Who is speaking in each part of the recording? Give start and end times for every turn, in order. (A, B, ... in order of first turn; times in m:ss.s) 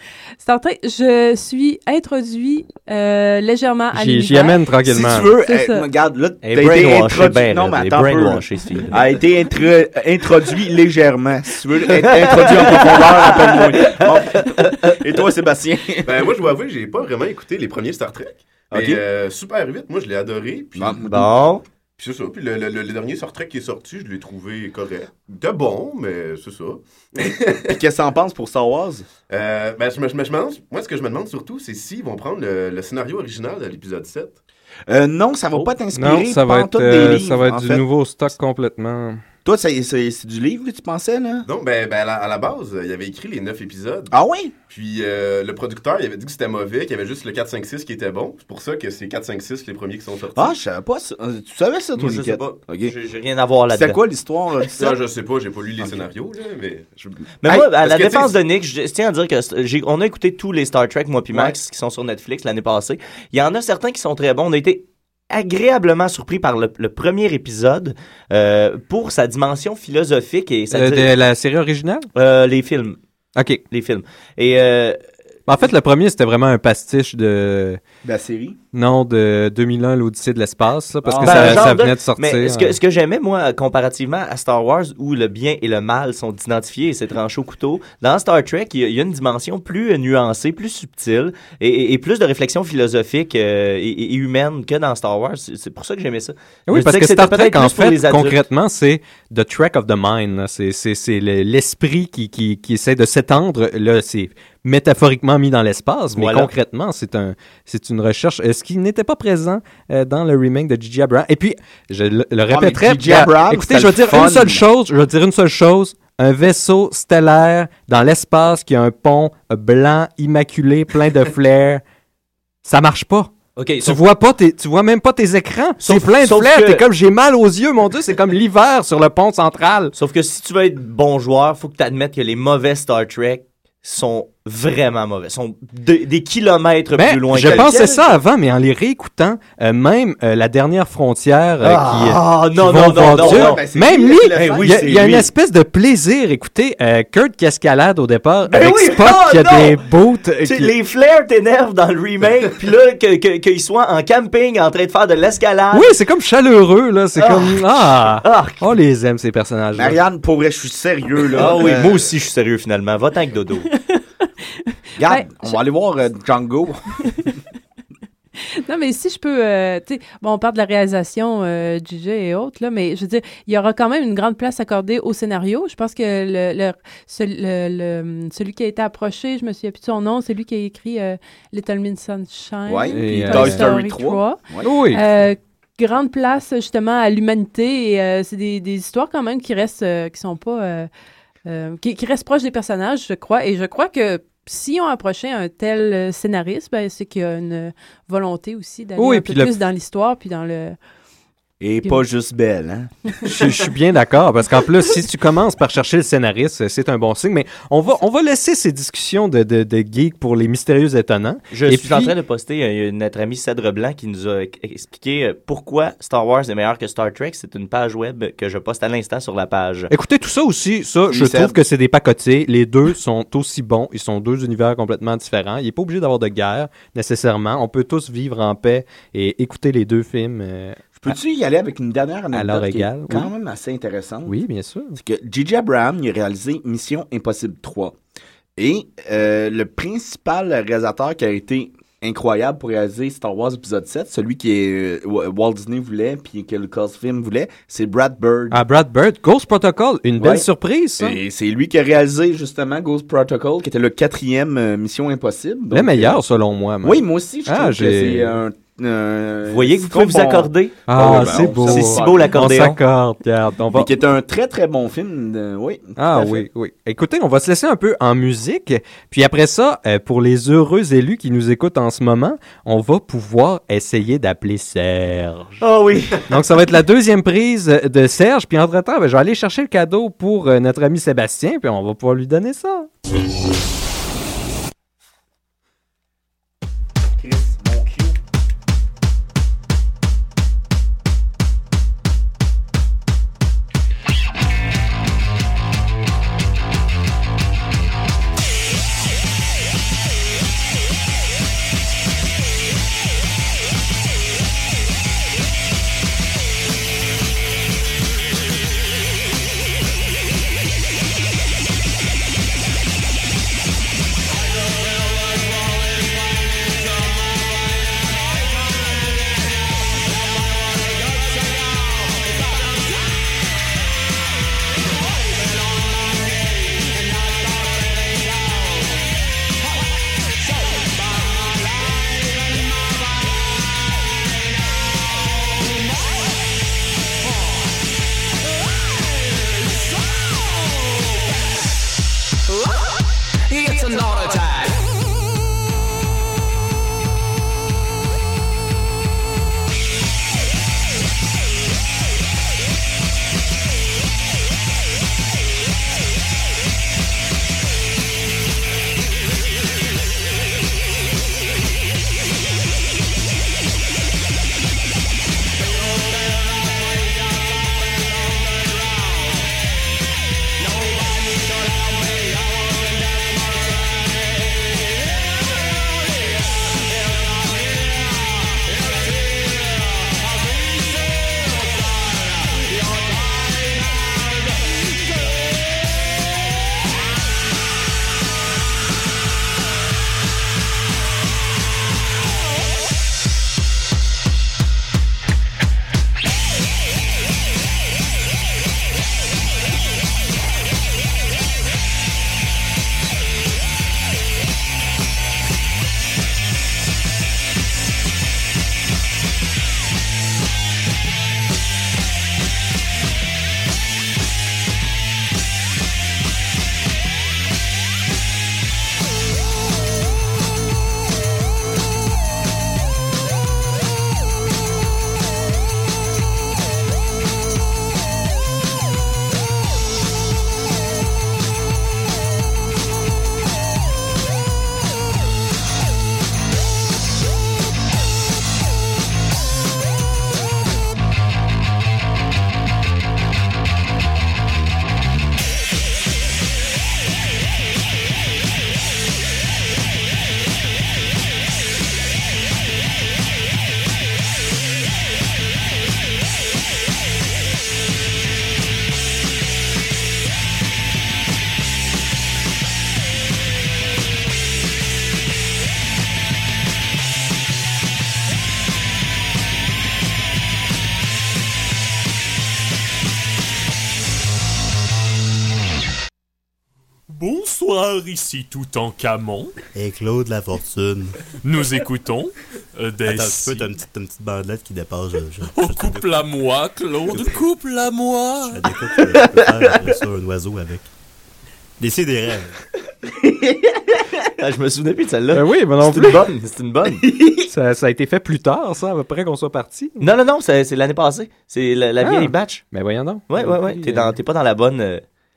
0:00.4-0:04.6 A
0:03.9-0:05.3 B
0:04.8-0:16.3 C
0:05.3-0:05.8 A
0:06.4-0:09.0 D
0:11.9-0:15.0 D
0:16.0-0:21.0 E
0:18.7-0:19.0 C
0:20.8-0:21.3 C
0:21.1-0:21.6 D
0:22.0-0:27.7 E
0:27.7-0:29.1 C
0:29.3-0:34.4 E
0:34.9-0:37.8 C
0:35.6-0:39.2 B
0:39.4-0:41.5 C
0:41.5-0:44.1 E
0:44.1-0:44.5 C
0:44.7-0:50.6 E
0:50.4-0:52.9 C
0:52.0-0:54.0 D
0:53.7-0:55.0 C
0:54.8-0:58.4 E
0:55.8-0:56.1 C
0:57.4-1:11.1 D
1:10.7-1:12.1 B
1:12.2-1:13.0 D
1:13.7-1:15.0 D
1:15.5-1:17.8 B
1:18.0-1:18.6 C
1:18.7-1:22.8 B
1:21.0-1:21.7 C
1:21.2-1:38.4 D
1:36.7-2:01.8 B
1:46.1-1:46.5 D
1:52.5-1:54.6 C
2:02.6-2:09.9 B
2:03.6-2:04.0 D
2:05.8-2:06.9 D
2:10.0-2:17.8 D
2:17.0-2:30.7 B
2:17.3-2:18.2 C
2:21.6-2:23.6 D
2:23.1-2:25.3 C
2:24.3-2:24.7 D
2:28.5-2:29.8 D
2:30.4-2:35.9 D
2:35.7-2:40.0 B
2:37.2-2:38.6 D
2:39.8-2:42.1 C
2:41.4-2:43.7 D
2:44.7-2:45.6 A
2:45.0-2:46.8 C
2:48.6-3:10.9 A
3:02.7-3:04.7 C
3:02.9-3:03.7 B
3:04.6-3:05.0 B
3:11.5-3:20.8 A
3:19.0-3:19.6 B
3:21.6-3:23.6 C
3:23.3-3:32.1 B
3:31.5-3:39.9 D
3:39.9-3:51.1 B
3:41.1-3:41.6 C
3:51.0-3:54.4 C
3:52.3-3:53.3 B
3:54.3-3:55.0 B
3:55.0-3:58.0 C
3:58.6-4:08.6 C
4:08.5-4:11.2 B
4:10.2-4:10.5 C
4:11.0-4:16.2 C
4:15.7-4:18.4 B
4:16.8-4:22.4 C
4:19.5-4:22.8 D
4:20.9-4:23.9 B
4:23.7-4:26.4 C
4:26.0-4:35.6 B
4:35.6-4:36.3 D
4:36.3-4:42.9 B
4:47.2-4:48.2 C
7:57.1-7:59.6 F
7:59.8-8:01.2 G
8:01.4-8:03.8 F
8:03.3-8:06.0 G
8:05.4-8:09.0 F
8:08.7-8:10.8 G
8:09.0-8:09.9 C
8:11.9-8:12.6 G
8:13.1-8:14.2 C
8:14.4-8:17.0 D
8:15.3-8:16.3 B
8:17.0-8:17.5 C
8:17.5-8:20.0 B
8:20.0-8:22.6 D
8:22.0-8:24.1 B
8:23.3-8:25.0 D